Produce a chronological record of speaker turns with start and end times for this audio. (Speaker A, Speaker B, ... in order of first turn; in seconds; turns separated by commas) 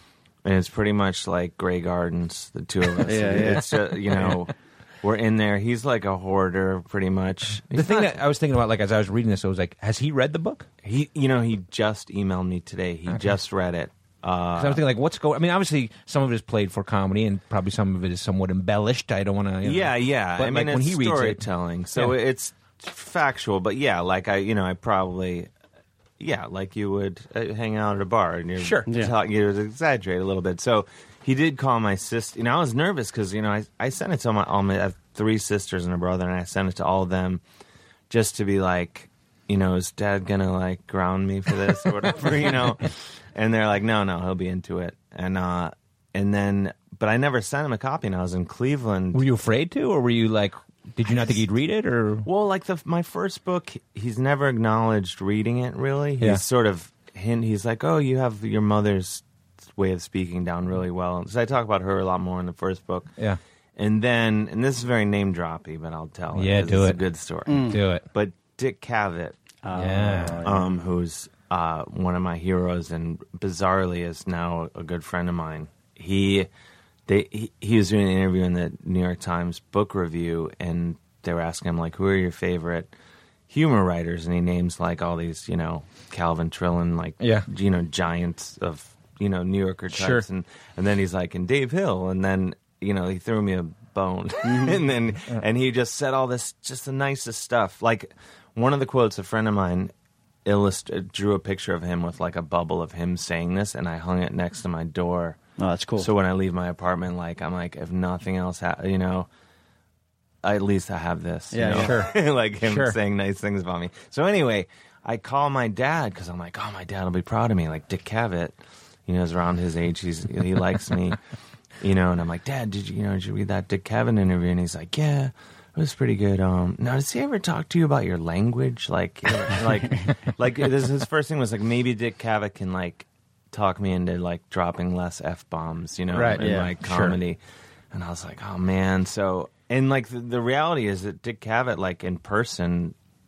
Speaker A: 0.4-8.2, Speaker B: 3.0-3.7, Speaker C: 4.1-4.4, Speaker C: 7.7-10.7, Speaker A: 10.8-14.8, Speaker C: 13.1-13.3, Speaker C: 14.6-21.4, Speaker A: 19.6-25.5, Speaker A: 26.2-37.4, Speaker C: 28.6-28.9, Speaker B: 28.9-29.1, Speaker A: 38.1-49.2, Speaker C: 49.1-52.3, Speaker A: 52.2-59.2, Speaker A: 59.8-63.1, Speaker A: 63.8-69.4, Speaker C: 66.3-67.0, Speaker B: 67.5-67.8, Speaker C: 67.6-68.0, Speaker B: 69.6-70.7, Speaker C: 69.7-70.4, Speaker A: 70.4-76.5, Speaker A: 77.1-82.9, Speaker A: 83.5-99.9, Speaker C: 87.2-87.5, Speaker C: 89.9-90.2, Speaker A: 100.4-105.4, Speaker B: 105.6-106.1, Speaker A: 106.0-109.3, Speaker A: 110.4-118.5, Speaker B: 111.5-111.9, Speaker C: 111.8-113.0, Speaker A: 119.1-121.2, Speaker A: 121.8-137.4, Speaker C: 136.1-137.2, Speaker B: 136.4-136.7, Speaker A: 137.9-142.9